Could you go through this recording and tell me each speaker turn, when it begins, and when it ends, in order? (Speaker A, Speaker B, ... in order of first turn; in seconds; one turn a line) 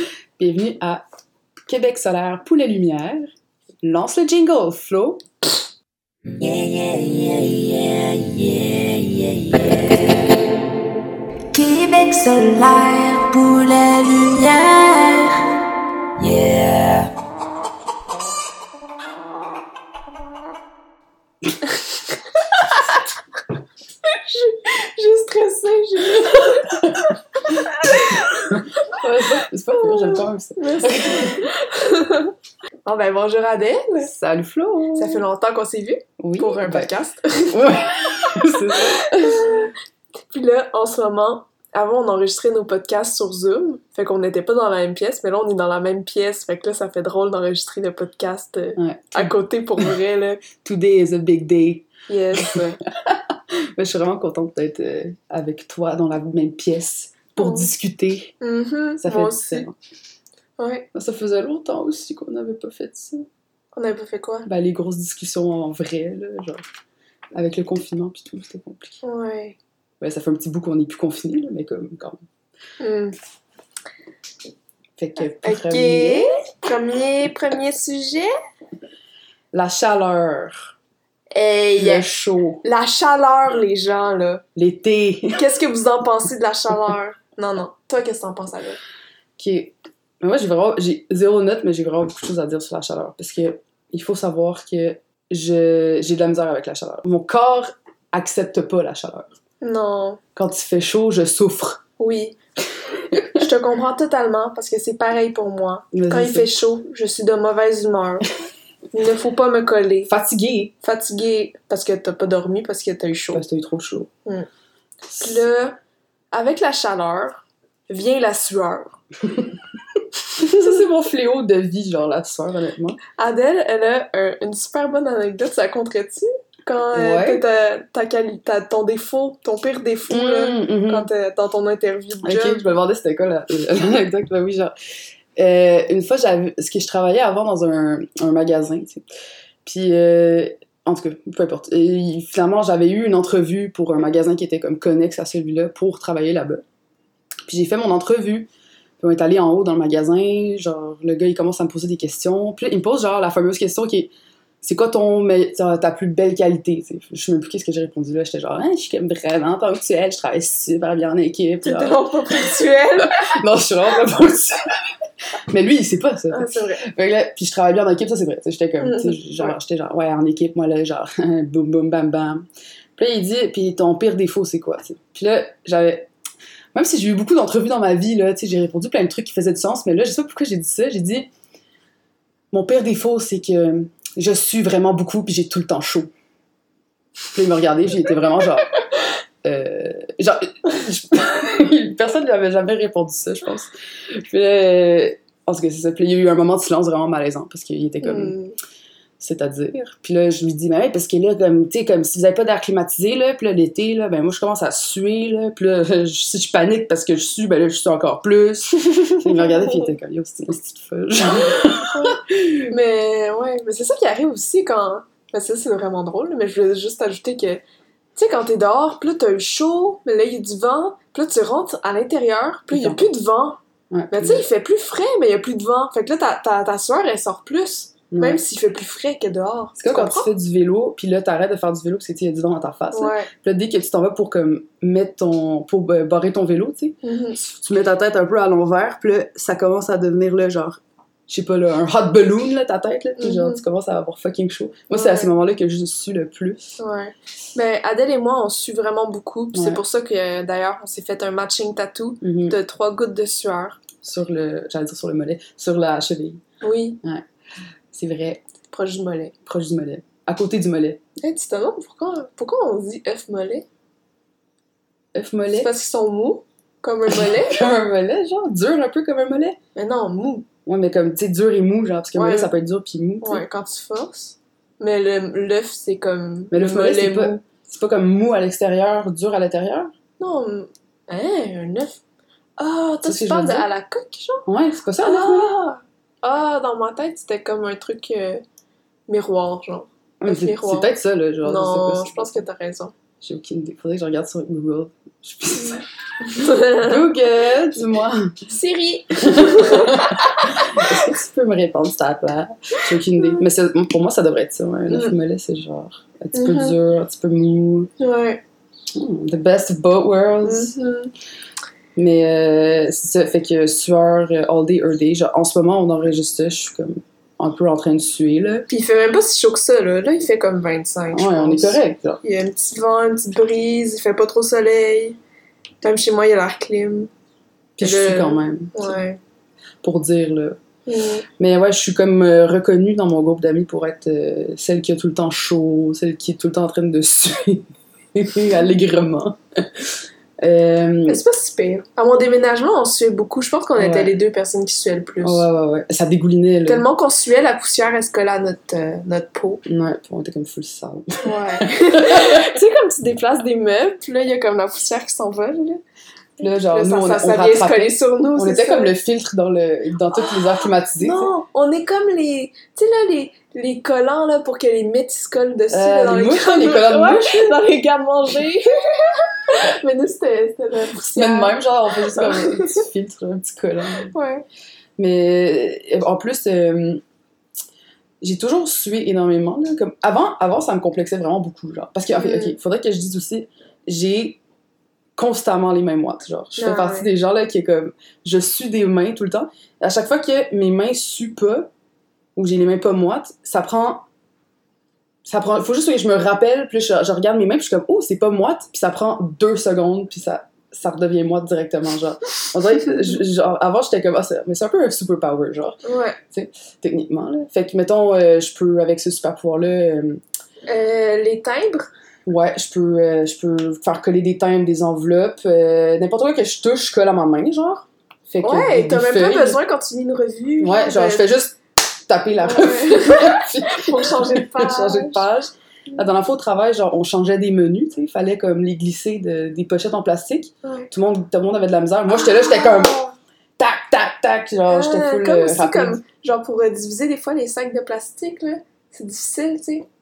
Speaker A: 0.4-1.0
Speaker A: 1.7-3.3
Speaker A: 3.8-5.2
Speaker B: 6.4-10.4
Speaker B: 11.5-15.4
Speaker B: 16.2-17.1
Speaker C: 24.0-28.6
Speaker A: 26.2-31.5
Speaker C: 29.7-32.3
Speaker C: 32.9-34.1
Speaker A: 34.0-35.2
Speaker C: 34.9-39.7
Speaker A: 36.2-36.9
Speaker A: 37.5-39.5
Speaker C: 40.3-50.5
Speaker A: 48.8-49.9
Speaker A: 50.5-53.2
Speaker C: 52.1-52.8
Speaker A: 53.8-58.3
Speaker C: 57.4-57.7
Speaker C: 58.4-59.6
Speaker A: 59.0-59.7
Speaker C: 60.6-60.9
Speaker A: 60.9-63.3
Speaker C: 63.7-64.5
Speaker A: 64.5-66.6
Speaker A: 67.3-69.0
Speaker C: 69.0-69.6
Speaker A: 70.0-72.2
Speaker C: 72.8-73.2
Speaker A: 75.0-76.3
Speaker C: 75.2-78.3
Speaker A: 79.5-80.7
Speaker C: 81.3-82.1
Speaker A: 81.8-82.6
Speaker C: 82.6-84.4
Speaker A: 84.5-85.4
Speaker C: 85.3-88.8
Speaker A: 89.4-99.3
Speaker C: 99.6-100.2
Speaker A: 100.3-101.8
Speaker C: 102.0-102.4
Speaker A: 103.1-103.4
Speaker C: 103.1-108.2
Speaker A: 105.9-106.6
Speaker C: 108.9-110.1
Speaker A: 110.0-110.7
Speaker C: 110.8-113.4
Speaker A: 113.3-114.1
Speaker A: 115.1-115.4
Speaker C: 115.2-115.8
Speaker C: 116.3-119.0
Speaker A: 120.3-123.0
Speaker C: 120.4-120.8
Speaker C: 123.1-132.7
Speaker A: 126.9-127.4
Speaker A: 130.1-131.1
Speaker A: 132.2-134.7
Speaker A: 135.3-139.0
Speaker A: 139.6-146.6
Speaker A: 147.5-148.5
Speaker A: 149.0-154.1
Speaker A: 154.6-162.4
Speaker C: 161.6-163.3
Speaker A: 163.0-164.7
Speaker A: 165.5-172.4
Speaker C: 166.3-166.8
Speaker C: 168.8-169.5
Speaker A: 172.9-176.1
Speaker A: 176.7-181.3
Speaker A: 182.5-186.1
Speaker A: 187.3-188.8
Speaker A: 189.4-198.4
Speaker C: 198.0-198.6
Speaker A: 199.2-212.7
Speaker C: 209.0-209.9
Speaker C: 211.3-217.6
Speaker C: 218.2-223.6
Speaker A: 222.7-223.1
Speaker A: 223.9-224.4
Speaker C: 224.1-230.3
Speaker A: 228.1-228.4
Speaker A: 229.8-246.7
Speaker C: 232.9-233.3
Speaker C: 237.0-237.4
Speaker C: 243.2-243.6
Speaker C: 244.9-245.3
Speaker C: 246.8-253.8
Speaker A: 249.5-249.8
Speaker A: 252.2-252.6
Speaker A: 254.0-256.4
Speaker C: 256.6-257.0
Speaker A: 257.9-258.4
Speaker C: 258.7-259.3
Speaker A: 259.4-261.0
Speaker C: 261.2-263.6
Speaker A: 265.1-265.7
Speaker C: 265.5-267.7
Speaker A: 267.1-269.6
Speaker C: 269.7-270.5
Speaker A: 270.6-273.4
Speaker C: 272.1-272.5
Speaker C: 273.2-277.4
Speaker A: 276.5-279.9
Speaker C: 280.2-282.0
Speaker C: 282.6-284.4
Speaker A: 283.0-283.7
Speaker A: 284.4-285.6
Speaker C: 285.0-288.4
Speaker C: 289.1-290.9
Speaker A: 290.2-292.4
Speaker C: 291.4-292.9
Speaker A: 293.2-295.8
Speaker C: 296.2-297.1
Speaker A: 296.3-298.5
Speaker C: 298.5-301.0
Speaker A: 299.2-307.9
Speaker C: 303.1-303.4
Speaker C: 304.9-305.1
Speaker C: 306.3-306.8
Speaker C: 308.0-308.4
Speaker A: 308.9-310.7
Speaker C: 310.4-311.1
Speaker A: 311.9-318.7
Speaker C: 318.7-325.2
Speaker A: 321.1-322.2
Speaker C: 325.8-327.1
Speaker A: 327.8-329.0
Speaker C: 327.8-329.2
Speaker A: 329.8-330.6
Speaker C: 330.9-331.2
Speaker A: 331.4-339.8
Speaker A: 340.4-341.2
Speaker C: 341.1-345.4
Speaker A: 343.8-344.1
Speaker A: 345.2-346.8
Speaker C: 346.6-349.6
Speaker A: 349.6-352.5
Speaker C: 351.2-355.8
Speaker A: 356.4-361.3
Speaker C: 356.4-358.9
Speaker C: 361.0-372.8
Speaker A: 365.7-367.6
Speaker A: 371.0-374.1
Speaker C: 374.0-374.4
Speaker A: 375.0-377.0
Speaker A: 378.2-384.4
Speaker C: 382.1-382.6
Speaker A: 385.2-391.7
Speaker C: 386.6-387.1
Speaker A: 392.4-394.0
Speaker A: 395.2-410.2
Speaker C: 405.8-406.2
Speaker C: 410.7-411.9
Speaker A: 412.2-419.6
Speaker C: 418.4-421.3
Speaker A: 420.6-436.0
Speaker C: 422.4-425.2
Speaker C: 430.6-430.9
Speaker C: 432.2-433.1
Speaker C: 434.7-439.9